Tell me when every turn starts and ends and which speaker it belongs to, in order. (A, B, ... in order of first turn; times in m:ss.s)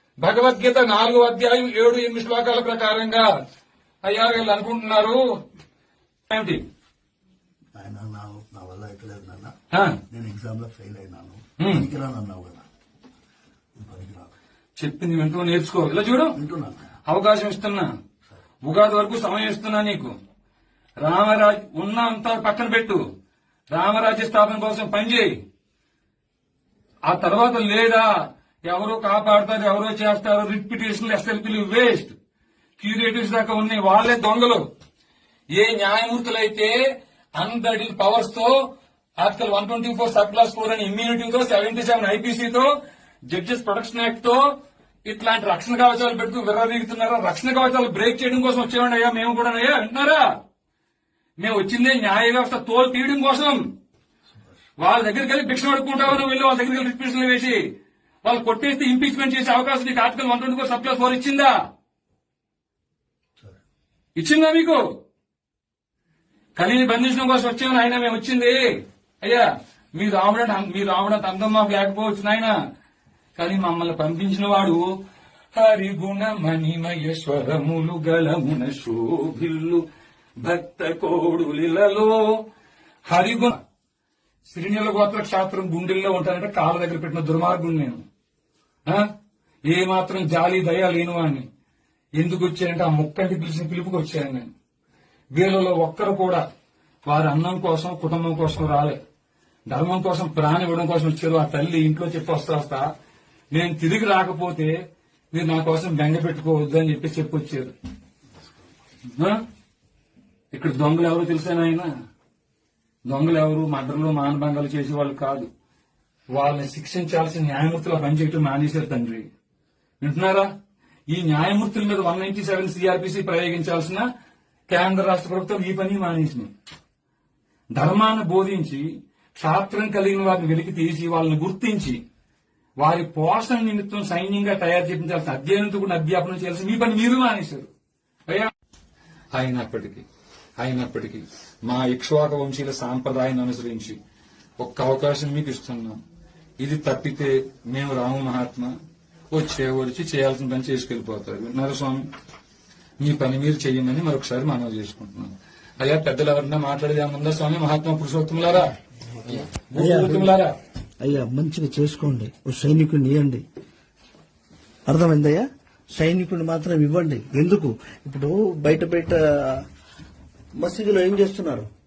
0:00.2-0:03.3 A
0:04.0-0:05.2 A
0:06.3-0:06.6 A
0:07.8-0:09.5 B
0:09.7-0:10.0 A
0:10.1-0:12.6 B
0:11.6-0:11.8 A
0:13.8-0:14.3 B
0:14.8-0:16.4 A
0:16.3-0:16.9 B
0:17.1-0:17.9 A
0:18.6-0:20.1 A
0:21.0-0:23.0 A
0:23.7-0:25.3 A
0:27.1-0:28.1 A
0:28.6-0:32.1 A
0:32.8-0:34.6 A
0:35.5-0:36.8 A
0:37.4-0:38.6 A
0:39.2-0:42.7 A
0:43.3-0:44.5 A
0:45.0-0:50.3 A
0:51.4-0:53.6 A
0:54.8-0:57.6 A
0:58.2-1:01.6 A
1:04.2-1:04.8 A
1:06.6-1:08.6 A
1:09.2-1:12.5 A
1:13.4-1:14.9 A
1:15.5-1:19.8 A
1:20.4-1:22.3 A
1:23.1-1:23.6 A
1:24.5-1:28.0 A
1:29.7-1:31.5 A
1:32.2-1:34.5 A
1:35.3-1:36.4 A
1:37.0-1:39.0 A
1:39.7-1:42.9 A
1:43.5-1:44.8 A
1:45.3-1:47.7 A
1:49.2-1:49.4 A
1:50.5-1:51.9 A
1:53.1-1:55.5 A
1:56.3-1:59.3 A
2:00.0-2:00.5 A
2:01.1-2:04.1 A
2:04.7-2:06.5 A
2:07.8-2:12.0 A
2:12.8-2:17.7 A
2:19.3-2:20.0 A
2:20.6-2:24.0 A
2:24.6-2:26.0 A
2:26.6-2:28.7 A
2:29.3-2:32.0 A
2:33.0-2:38.7 A
2:39.5-2:40.5 A
2:39.7-2:40.3 C
2:41.0-2:43.4 C
2:44.9-2:49.6 C
2:50.6-2:51.7 C